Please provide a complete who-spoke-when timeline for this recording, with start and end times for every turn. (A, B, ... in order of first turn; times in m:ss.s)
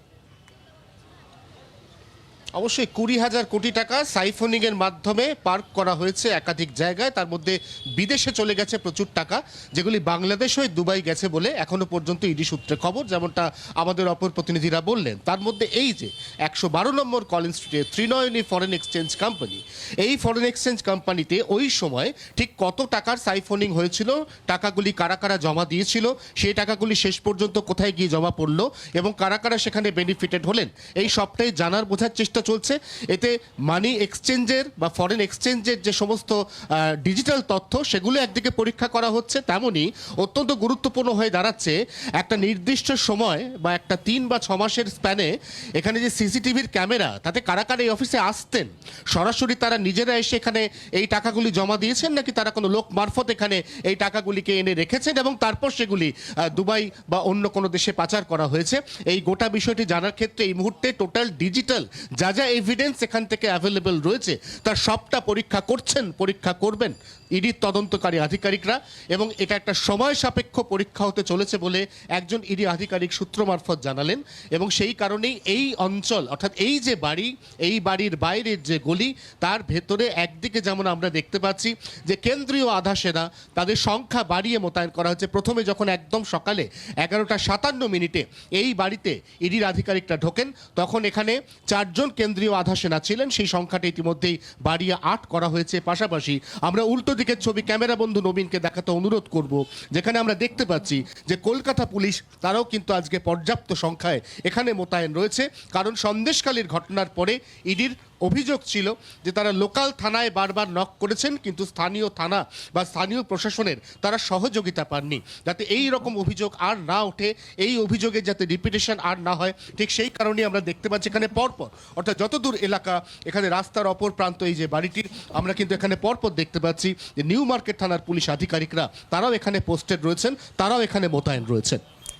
0:02.6-0:36.4 A
0:37.0-2:11.8 A